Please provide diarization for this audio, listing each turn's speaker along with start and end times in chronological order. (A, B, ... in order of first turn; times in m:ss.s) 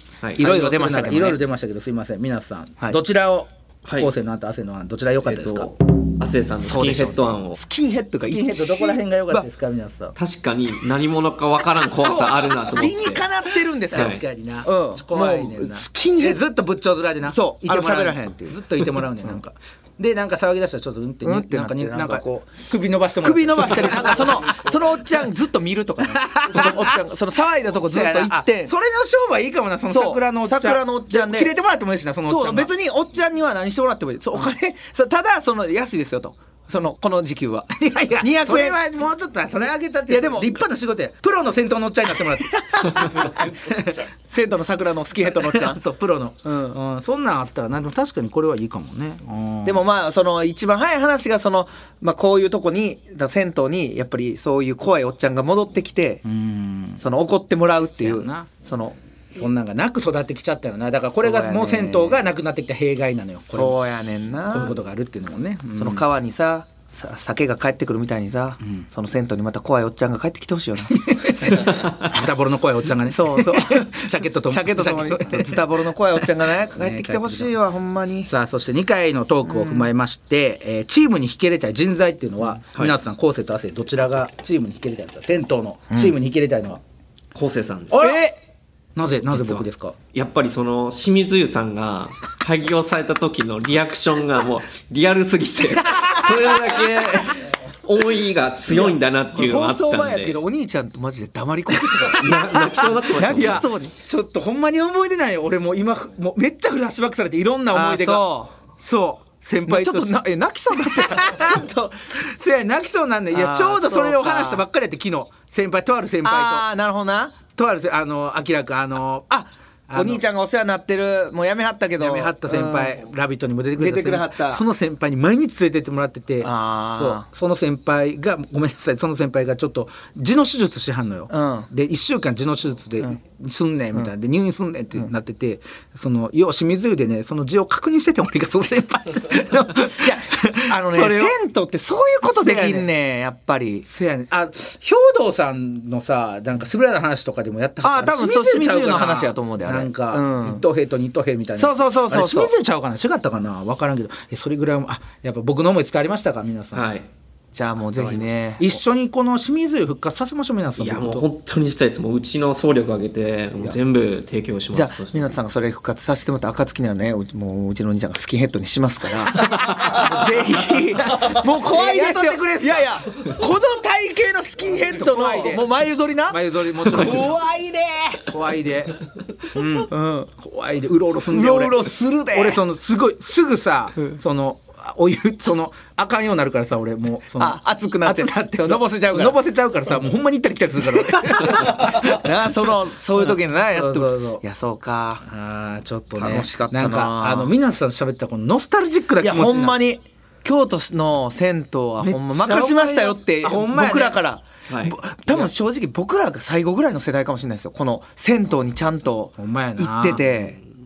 0:00.4-0:01.4 A
0:00.4-0:05.7 B
0:05.2-0:07.6 C
0:06.6-0:09.4 A
0:08.2-0:10.1 B
0:10.2-0:13.2 C
0:11.8-0:16.4 A
0:13.9-0:24.6 B
0:13.9-0:14.2 C
0:17.2-0:19.4 A
0:21.2-0:22.3 A
0:23.2-0:28.7 A
0:26.1-0:27.0 B
0:27.7-0:32.7 B
0:29.9-0:31.5 A
0:32.2-0:38.8 A
0:37.8-0:44.0 B
0:40.1-0:40.6 A
0:43.2-0:43.7 A
0:44.3-0:45.8 A
0:45.4-0:49.8 B
0:46.4-0:46.8 A
0:49.6-0:56.2 A
0:56.2-0:57.0 B
0:57.0-0:59.0 A
0:58.0-0:58.5 B
0:59.3-1:03.8 B
1:01.1-1:02.2 A
1:03.5-1:04.8 A
1:04.5-1:06.0 B
1:05.7-1:11.5 A
1:11.1-1:15.7 B
1:13.0-1:18.3 A
1:16.6-1:17.5 B
1:18.2-1:26.8 B
1:19.4-1:19.9 A
1:27.3-1:28.2 C
1:27.9-1:28.4 A
1:29.0-1:29.9 B
1:29.3-1:40.4 C
1:36.2-1:37.3 A
1:39.3-1:43.9 A
1:42.2-1:43.6 C
1:43.2-1:50.2 B
1:47.7-1:48.5 A
1:49.6-1:51.6 A
1:50.8-1:56.7 B
1:53.3-1:54.6 A
1:56.2-1:57.4 A
1:57.5-1:59.3 B
1:59.3-2:03.0 A
1:59.9-2:00.2 B
2:02.0-2:21.4 B
2:03.8-2:04.6 A
2:06.4-2:07.2 A
2:11.3-2:11.7 A
2:19.9-2:23.8 A
2:22.2-2:22.9 B
2:23.8-2:36.9 B
2:27.8-2:30.6 A
2:31.6-2:32.5 A
2:36.7-2:37.1 C
2:37.5-2:38.8 A
2:37.9-2:41.2 B
2:40.8-2:45.3 C
2:44.7-2:58.2 A
2:51.0-2:53.0 B
2:54.9-2:55.7 B
2:56.3-2:57.4 B
2:58.2-2:59.0 B
2:59.5-3:12.2 B
2:59.8-3:00.3 A
3:01.3-3:02.6 A
3:07.3-3:09.4 A
3:10.8-3:15.2 A
3:13.2-3:14.4 B
3:15.2-3:19.8 B
3:16.2-3:17.5 A
3:19.2-3:30.6 A
3:22.0-3:24.2 B
3:24.7-3:25.0 C
3:29.4-3:30.2 B